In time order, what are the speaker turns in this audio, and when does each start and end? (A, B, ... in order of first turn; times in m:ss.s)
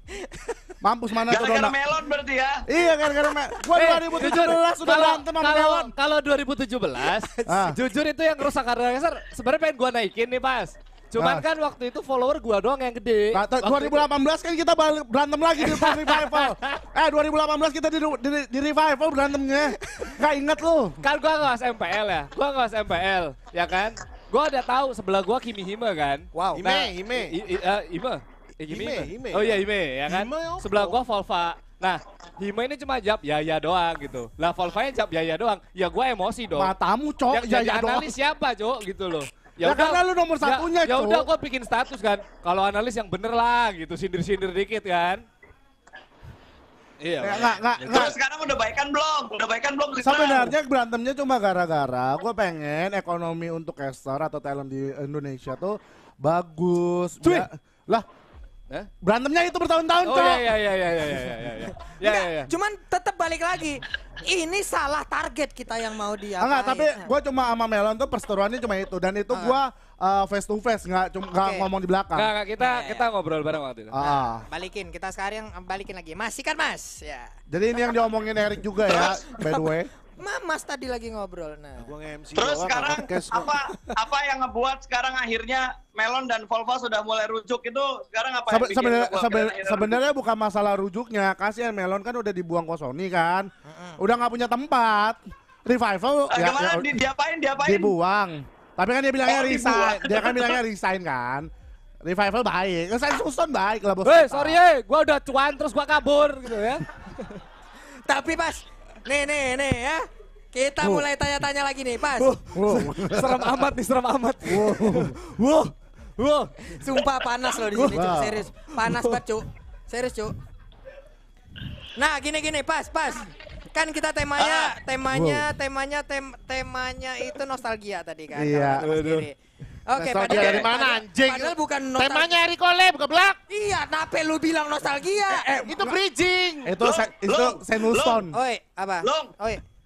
0:00.1-0:00.7 A
0:00.8-0:01.8 B
0:01.3-0:02.6 C
0:02.7-0:05.9 B
0:03.8-0:14.0 D
0:07.5-0:07.8 B
0:11.2-0:11.4 B
0:13.3-0:21.0 B
0:15.6-0:16.8 D
0:21.0-0:36.7 D
0:26.6-0:27.4 E
0:28.7-0:31.0 E
0:36.5-0:38.1 B
0:37.3-0:45.2 D
0:39.6-0:41.3 B
0:47.0-0:48.1 D
0:47.2-0:48.2 B
0:47.9-0:50.6 C
0:50.0-0:58.1 B
0:57.2-0:57.5 D
0:59.0-1:00.5 B
1:00.0-1:02.5 D
1:02.0-1:07.1 A
1:06.4-1:12.3 B
1:09.3-1:09.6 A
1:11.4-1:11.7 A
1:12.1-1:13.9 D
1:12.6-1:13.1 A
1:13.9-1:14.5 B
1:14.0-1:17.4 A
1:17.5-1:19.9 B
1:18.8-1:21.9 A
1:21.8-1:23.6 E
1:22.4-1:30.0 C
1:28.5-1:37.0 B
1:33.7-1:34.0 A
1:36.3-1:37.9 C
1:37.6-1:41.5 B
1:39.2-1:40.6 C
1:42.0-1:44.6 B
1:44.0-1:47.4 D
1:48.1-1:52.3 A
1:50.8-1:51.1 B
1:52.2-1:57.0 D
1:52.5-1:53.5 B
1:54.4-1:55.2 B
1:56.7-2:00.4 A
1:57.7-1:58.5 B
1:58.8-1:59.2 D
2:02.0-2:09.4 A
2:04.4-2:04.7 C
2:05.1-2:05.5 B
2:08.3-2:08.9 B
2:08.8-2:09.3 D
2:09.9-2:12.4 A
2:10.0-2:13.4 E
2:13.5-2:15.5 A
2:15.3-2:16.0 B
2:15.6-2:16.9 E
2:16.6-2:18.4 B
2:16.8-2:18.2 C
2:18.3-2:19.6 A
2:19.0-2:19.4 C